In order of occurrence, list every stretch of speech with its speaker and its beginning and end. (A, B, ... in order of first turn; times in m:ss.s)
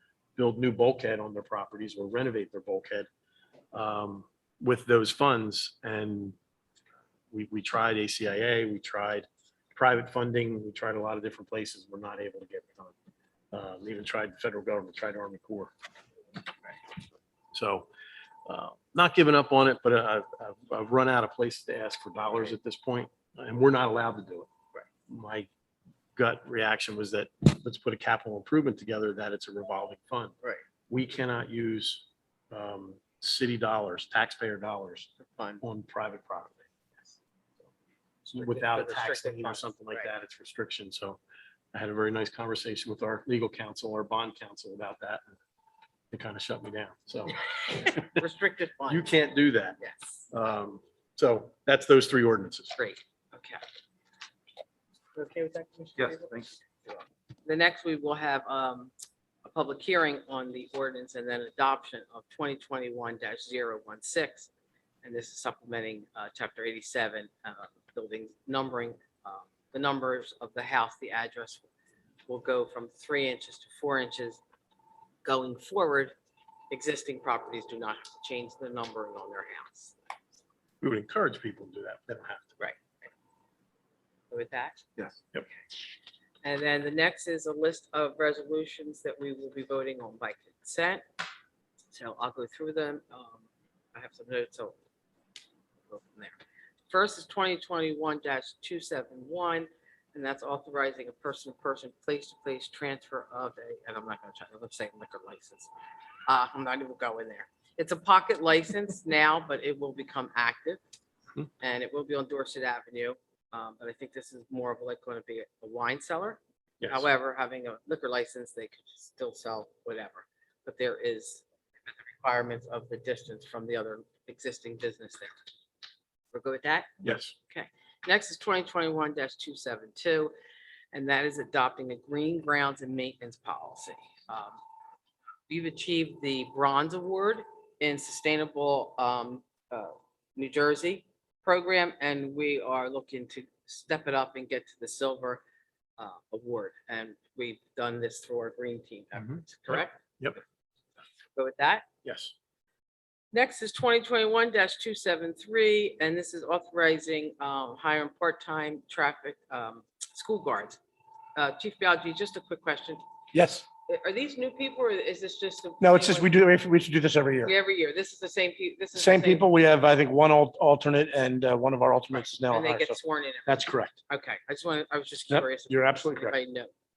0:00.4-0:03.1 A
0:03.7-0:06.4 A
0:07.3-0:13.0 A
0:13.5-0:15.7 A
0:17.5-0:17.9 A
0:18.5-0:24.5 A
0:25.1-0:25.5 A
0:26.2-0:30.4 A
0:30.9-0:35.1 A
0:35.2-0:35.6 B
0:35.6-0:36.7 A
0:38.3-0:41.2 A
0:38.4-0:40.1 B
0:41.7-0:45.4 A
0:46.1-0:48.2 A
0:48.1-0:49.1 B
0:48.9-0:49.8 A
0:49.8-0:50.2 B
0:50.3-0:52.8 A
0:52.8-0:53.6 B
0:55.2-0:58.9 B
0:59.4-1:04.5 B
1:05.0-1:11.7 B
1:12.3-1:14.4 B
1:15.2-1:16.1 B
1:16.7-1:20.0 B
1:20.8-1:22.5 A
1:22.6-1:23.1 B
1:24.3-1:24.9 B
1:26.4-1:31.0 B
1:31.9-1:34.8 B
1:35.9-1:36.4 B
1:36.9-1:45.7 B
1:46.3-1:50.8 B
1:51.6-2:05.3 B
1:56.8-1:57.1 A
2:06.3-2:06.9 B
2:07.0-2:07.3 A
2:07.5-2:10.3 B
2:10.9-2:14.6 B
2:15.5-2:25.4 B
2:26.0-2:30.0 B
2:29.2-2:30.4 A
2:31.4-2:31.8 B
2:32.0-2:32.3 A
2:33.3-2:40.8 B
2:41.4-2:43.0 B
2:43.3-2:43.7 C
2:43.9-2:46.4 B
2:45.8-2:47.5 C
2:47.4-2:49.5 B
2:49.0-2:54.0 C
2:52.1-2:56.7 B
2:55.3-2:56.4 C